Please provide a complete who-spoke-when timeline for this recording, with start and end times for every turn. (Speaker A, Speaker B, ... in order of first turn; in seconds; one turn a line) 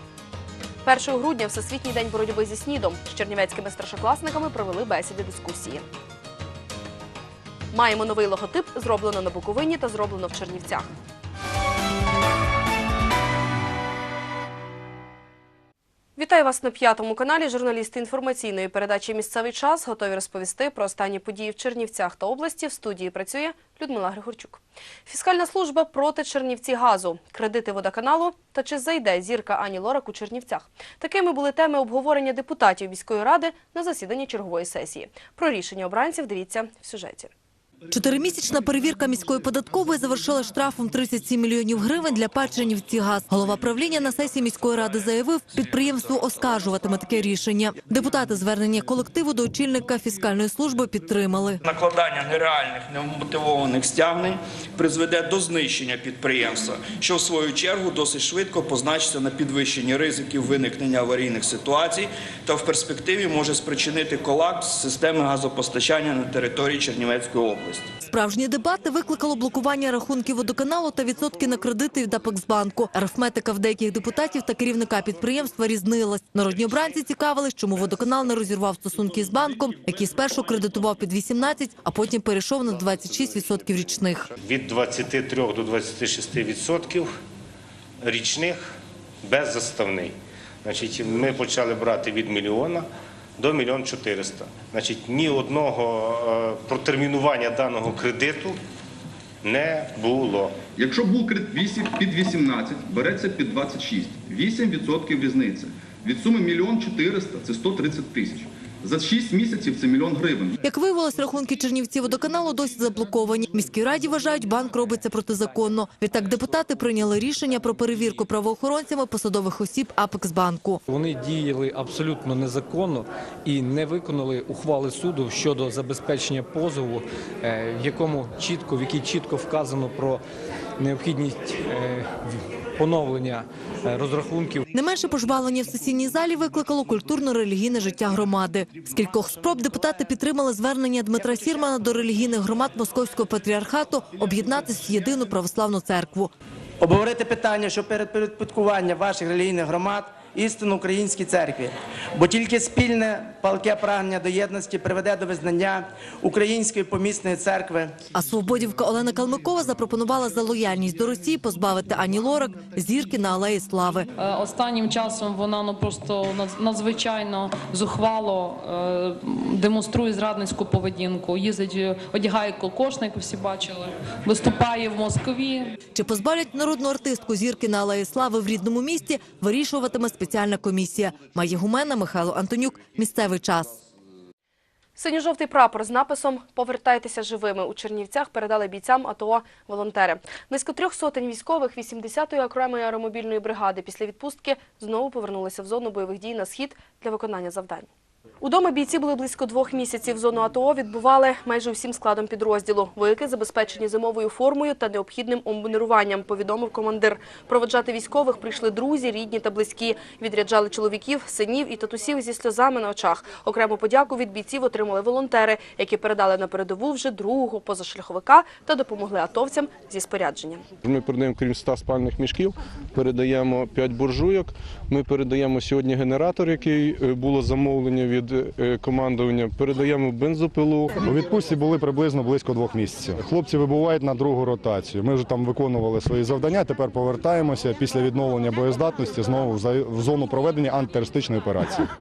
Speaker A: 0.8-5.8
Speaker A: 7.7-10.9
Speaker A: 16.1-37.3
Speaker B: 37.9-51.6
Speaker C: 51.7-67.9
Speaker B: 68.1-84.3
Speaker D: 84.4-87.1
Speaker D: 88.0-88.7
Speaker D: 89.2-98.6
Speaker D: 99.4-100.6
Speaker E: 100.8-110.6
Speaker B: 110.6-120.8
Speaker F: 120.9-130.2
Speaker F: 130.8-134.6
Speaker B: 134.7-146.3
Speaker G: 146.8-157.9
Speaker B: 158.1-164.1
Speaker H: 164.2-175.7
Speaker B: 175.9-183.7
Speaker A: 184.9-197.9
Speaker A: 198.4-220.6
Speaker I: 220.8-230.9
Speaker J: 231.0-241.9